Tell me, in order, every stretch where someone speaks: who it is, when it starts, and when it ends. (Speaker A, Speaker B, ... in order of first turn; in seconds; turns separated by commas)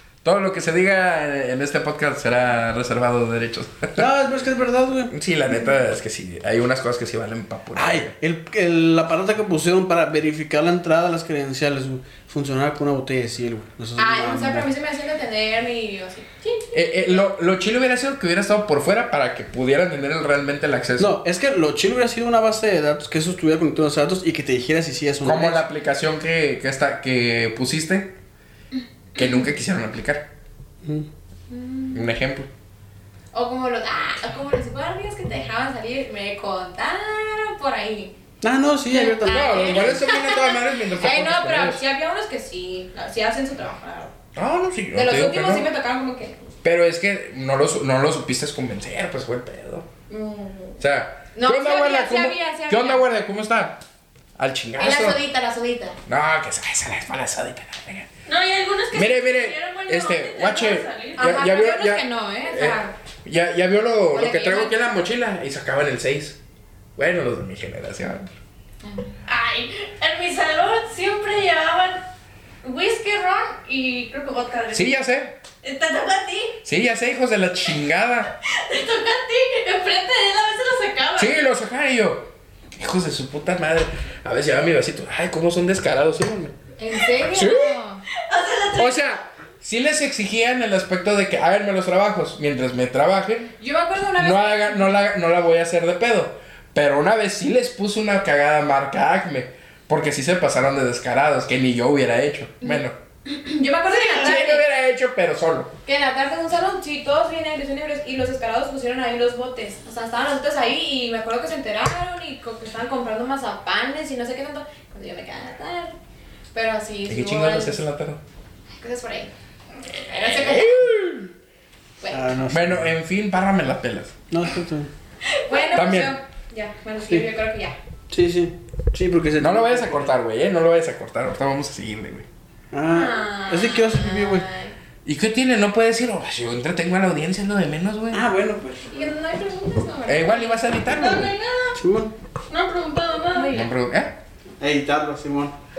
Speaker A: 0.2-4.1, Speaker B: 3.9-5.1, Speaker A: 5.1-8.1, Speaker B: 7.7-14.7, Speaker C: 14.0-17.3, Speaker A: 16.7-21.1, Speaker B: 21.0-25.6, Speaker A: 25.2-28.1, Speaker A: 29.1-30.3, Speaker C: 29.2-29.4, Speaker C: 31.5-32.0, Speaker A: 31.9-32.5, Speaker C: 33.3-38.1, Speaker B: 38.4-40.0, Speaker C: 38.9-44.1, Speaker A: 39.2-41.8, Speaker A: 44.3-45.7, Speaker C: 44.9-46.3, Speaker A: 46.6-49.9, Speaker C: 50.1-50.8, Speaker A: 50.8-53.8, Speaker C: 51.3-53.0, Speaker A: 54.4-55.2, Speaker C: 54.8-56.0, Speaker A: 56.1-58.1, Speaker D: 58.2-61.3, Speaker A: 58.9-66.4, Speaker C: 61.2-62.9, Speaker C: 64.1-64.8, Speaker A: 67.0-68.3, Speaker C: 68.8-69.1, Speaker D: 69.2-72.0, Speaker D: 72.6-74.9, Speaker A: 74.7-75.3, Speaker D: 75.6-76.6, Speaker A: 76.6-78.3, Speaker D: 78.4-81.4, Speaker A: 81.2-86.5, Speaker C: 86.8-88.0, Speaker A: 87.3-87.8, Speaker D: 88.2-89.2, Speaker A: 88.8-93.5, Speaker C: 93.6-95.0, Speaker A: 94.2-102.9, Speaker C: 102.6-104.6, Speaker A: 103.9-105.7, Speaker C: 105.8-116.0, Speaker C: 116.5-117.8, Speaker A: 117.1-118.2, Speaker C: 118.8-119.3, Speaker C: 120.0-120.8, Speaker A: 120.2-121.3, Speaker C: 122.0-122.2, Speaker B: 122.1-122.9, Speaker A: 122.5-124.2, Speaker B: 124.3-124.9, Speaker C: 125.5-127.8, Speaker A: 125.7-126.1, Speaker B: 128.1-130.1, Speaker A: 129.4-132.3, Speaker B: 132.7-134.5, Speaker C: 132.9-134.7, Speaker A: 135.0-138.2, Speaker B: 138.1-138.9, Speaker C: 138.9-140.6, Speaker A: 140.1-141.3, Speaker D: 140.9-141.8, Speaker B: 141.8-142.1, Speaker D: 142.5-143.5, Speaker C: 143.3-143.7, Speaker A: 143.5-144.2, Speaker B: 144.6-145.5